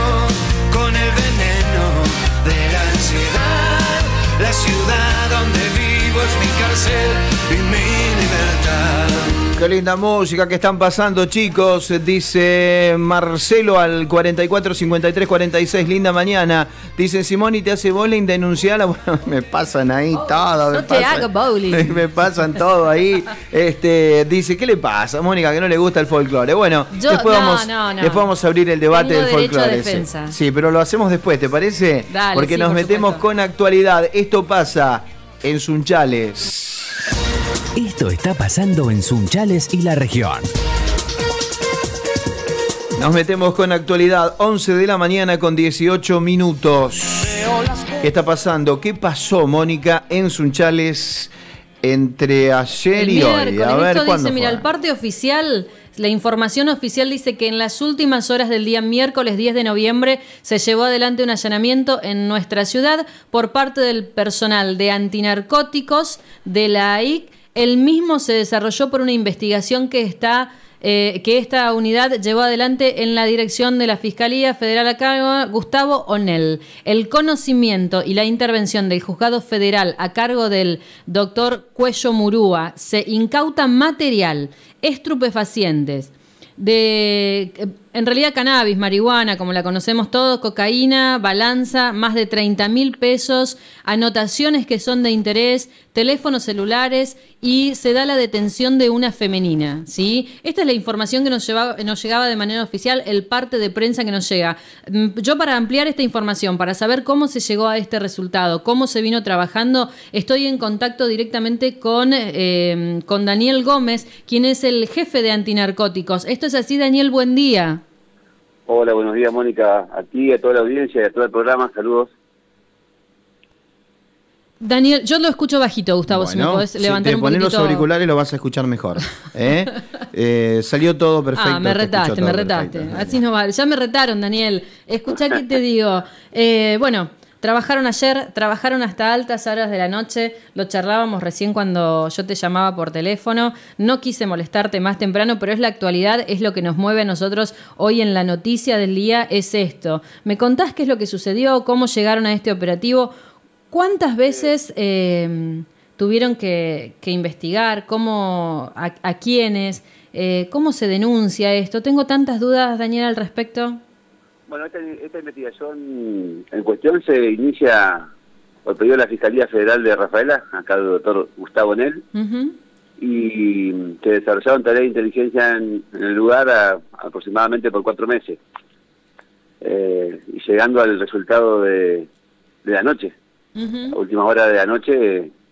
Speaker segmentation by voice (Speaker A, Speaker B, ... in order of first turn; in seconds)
Speaker A: 0.7-2.1, 2.7-3.9, 4.4-9.0
Speaker B: 8.5-9.2, 37.7-40.5
Speaker C: 9.5-36.9, 43.0-47.4, 48.0-51.3, 51.8-54.6, 126.1-133.2
Speaker D: 20.7-22.6, 26.9-28.3, 28.9-30.4, 32.1-33.2, 52.9-117.8, 124.6-127.9, 131.3-153.1, 153.7-163.8, 172.1-172.6, 183.6-184.0
Speaker E: 118.7-122.1, 164.5-168.1, 168.6-172.0, 173.0-178.4, 179.6-182.1, 182.6-183.2, 183.9-185.3